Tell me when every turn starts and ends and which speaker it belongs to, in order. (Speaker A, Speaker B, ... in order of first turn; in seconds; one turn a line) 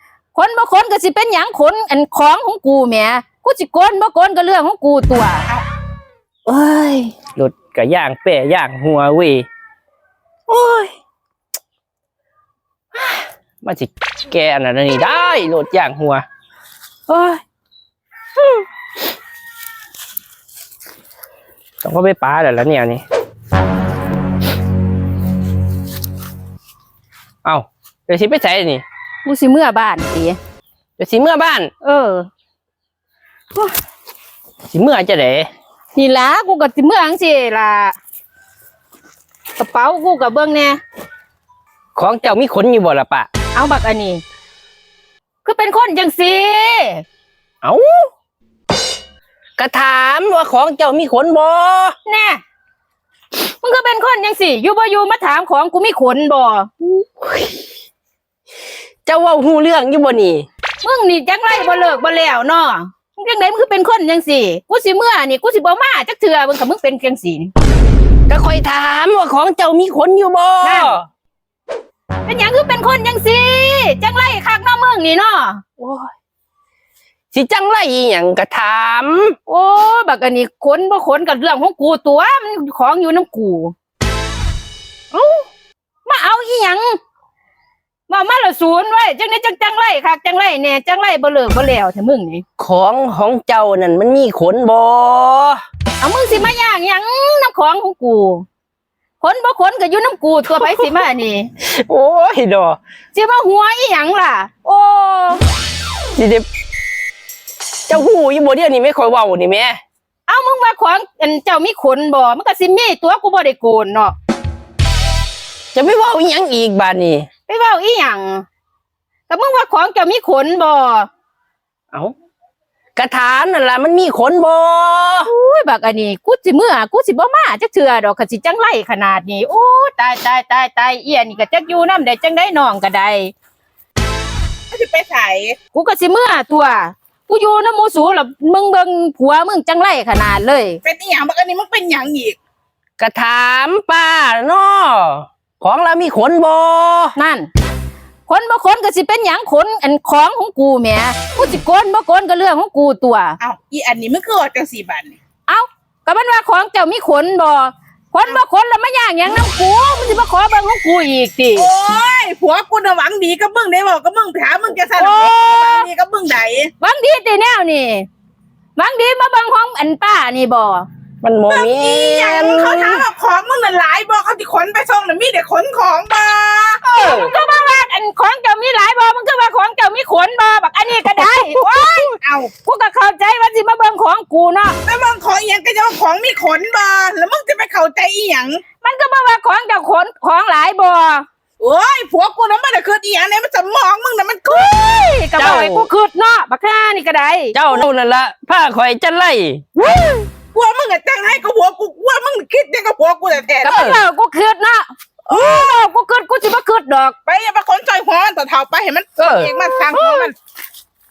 Speaker A: 0.3-5.5
Speaker B: 6.5-9.4
Speaker B: 10.5-10.9
Speaker B: 13.6-16.2
Speaker B: 17.1-17.4
Speaker B: 21.8-23.0
Speaker B: 27.4-28.8
Speaker A: 29.2-30.4
Speaker B: 31.0-31.7
Speaker A: 31.8-32.3
Speaker B: 34.7-35.5
Speaker A: 35.9-37.9
Speaker A: 39.6-40.8
Speaker B: 42.0-43.3
Speaker A: 43.5-44.2
Speaker A: 45.4-47.0
Speaker B: 47.6-48.1
Speaker B: 49.6-51.9
Speaker A: 52.0-52.4
Speaker A: 53.4-56.7
Speaker B: 57.2-57.6
Speaker B: 59.0-60.5
Speaker A: 60.8-67.5
Speaker B: 68.3-71.0
Speaker A: 70.6-71.0
Speaker A: 72.2-75.6
Speaker B: 75.8-76.1
Speaker B: 77.3-79.3
Speaker A: 79.5-83.7
Speaker A: 86.0-87.0
Speaker A: 88.1-92.4
Speaker B: 92.6-95.6
Speaker A: 96.0-98.5
Speaker A: 99.2-101.5
Speaker B: 101.6-102.8
Speaker A: 103.1-105.4
Speaker B: 106.2-106.5
Speaker B: 107.9-109.8
Speaker A: 110.3-114.1
Speaker B: 115.7-117.3
Speaker A: 117.5-118.5
Speaker A: 119.3-121.1
Speaker B: 123.0-125.3
Speaker A: 125.2-133.3
Speaker C: 134.7-135.6
Speaker A: 135.7-140.8
Speaker C: 140.8-142.4
Speaker B: 143.0-147.1
Speaker A: 147.2-147.5
Speaker A: 148.3-153.4
Speaker C: 153.4-155.2
Speaker A: 155.5-161.7
Speaker C: 161.5-166.7
Speaker A: 164.9-165.9
Speaker A: 166.8-168.1
Speaker A: 168.8-170.9
Speaker B: 171.2-173.0
Speaker C: 171.5-177.1
Speaker A: 176.9-184.8
Speaker C: 182.0-182.5
Speaker C: 184.8-188.6
Speaker A: 188.8-191.2
Speaker C: 191.6-194.7
Speaker A: 194.5-197.8
Speaker B: 195.4-195.9
Speaker B: 197.5-200.0
Speaker C: 200.5-203.9
Speaker A: 203.6-207.2
Speaker C: 205.3-205.7
Speaker C: 207.2-210.3
Speaker A: 209.2-210.3